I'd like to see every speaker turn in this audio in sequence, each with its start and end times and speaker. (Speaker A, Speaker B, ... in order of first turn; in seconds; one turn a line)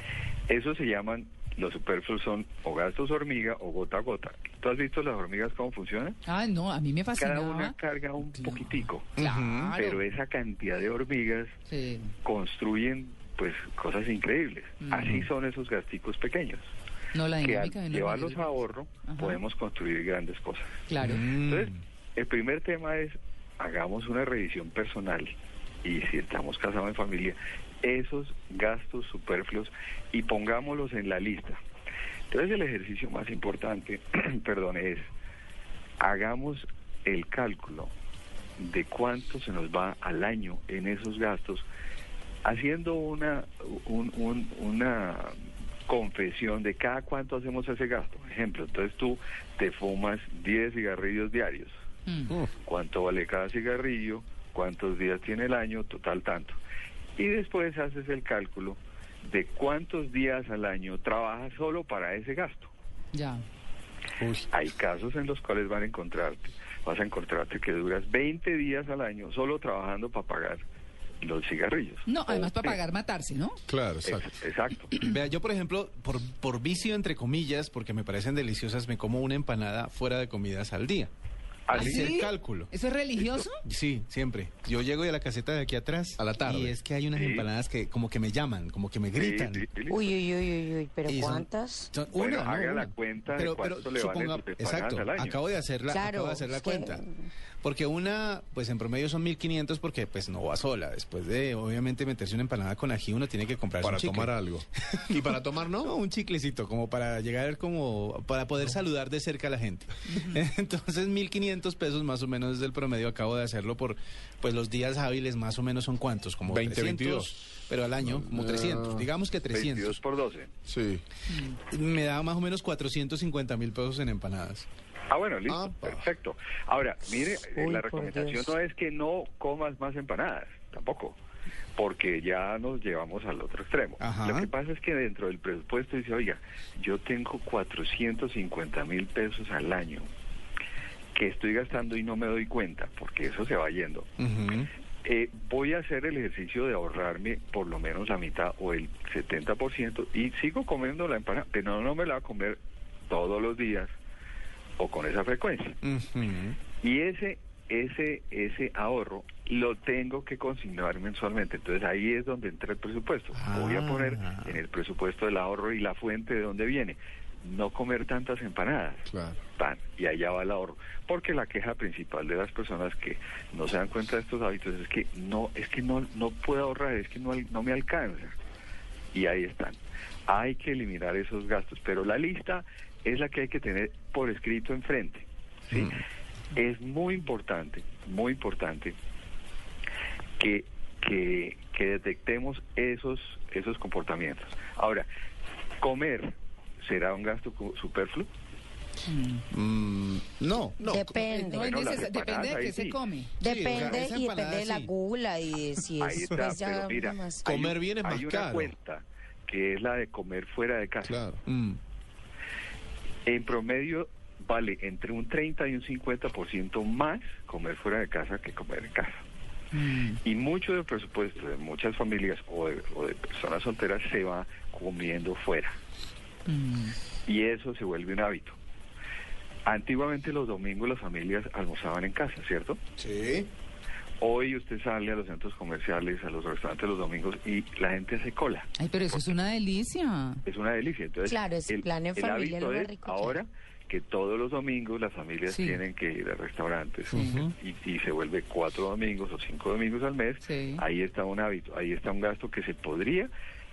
Speaker A: 0.5-6.2
Speaker B: 6.3-7.7
Speaker A: 7.2-9.2
Speaker C: 9.2-9.8
Speaker B: 9.2-10.0
Speaker A: 9.8-11.6
Speaker B: 11.7-12.1
Speaker A: 12.2-16.7
Speaker B: 14.8-15.1
Speaker B: 17.1-18.5
Speaker A: 17.4-25.3
Speaker B: 19.1-19.4
Speaker B: 20.9-21.2
Speaker C: 21.0-21.8
Speaker A: 25.8-31.6
Speaker A: 32.3-35.1
Speaker A: 36.0-37.9
Speaker A: 38.6-41.6
Speaker A: 42.4-45.3
Speaker A: 45.9-51.8
Speaker B: 52.1-52.4
Speaker A: 52.4-56.6
Speaker A: 57.2-62.7
Speaker B: 63.1-63.4
Speaker A: 64.5-70.6
Speaker A: 71.2-72.8
Speaker B: 72.0-73.6
Speaker D: 73.7-74.3
Speaker A: 74.0-75.0
Speaker C: 75.0-81.1
Speaker A: 81.7-82.2
Speaker C: 81.7-82.7
Speaker B: 81.7-83.5
Speaker A: 83.2-83.4
Speaker C: 83.6-89.7
Speaker D: 86.2-86.7
Speaker A: 87.1-87.5
Speaker A: 89.2-90.2
Speaker E: 89.9-91.9
Speaker C: 91.0-97.0
Speaker A: 92.1-95.4
Speaker E: 95.9-97.3
Speaker C: 97.6-104.3
Speaker D: 103.8-105.9
Speaker C: 105.8-120.0
Speaker B: 110.1-110.4
Speaker D: 116.5-117.3
Speaker D: 118.1-119.0
Speaker A: 119.5-120.5
Speaker D: 120.7-121.0
Speaker B: 121.3-121.6
Speaker C: 121.7-124.7
Speaker A: 125.1-131.2
Speaker D: 125.5-126.0
Speaker E: 127.5-128.5
Speaker A: 131.8-140.1
Speaker C: 134.0-134.5
Speaker A: 141.1-144.1
Speaker C: 144.2-144.7
Speaker A: 145.0-153.9
Speaker A: 154.8-155.8
Speaker C: 155.8-156.6
Speaker A: 156.8-178.3
Speaker C: 163.3-164.6
Speaker D: 169.1-169.4
Speaker A: 179.1-185.9
Speaker C: 185.7-186.0
Speaker A: 186.5-188.9
Speaker A: 190.4-195.1
Speaker A: 195.8-198.3
Speaker B: 199.1-199.4
Speaker C: 199.5-201.2
Speaker E: 200.8-201.8
Speaker B: 201.2-203.4
Speaker A: 201.5-203.0
Speaker E: 203.4-207.6
Speaker C: 203.4-204.9
Speaker A: 203.7-204.1
Speaker A: 206.0-211.2
Speaker D: 207.4-208.7
Speaker D: 211.0-211.4
Speaker C: 211.4-211.8
Speaker A: 213.2-219.2
Speaker B: 219.7-220.2
Speaker A: 220.2-225.8
Speaker B: 226.5-227.0
Speaker A: 227.2-228.6
Speaker A: 229.7-232.8
Speaker C: 233.0-233.4
Speaker A: 234.2-239.3
Speaker B: 238.8-240.4
Speaker A: 240.4-253.3
Speaker E: 241.2-243.4
Speaker B: 245.5-245.8
Speaker B: 247.1-247.5
Speaker B: 250.5-250.8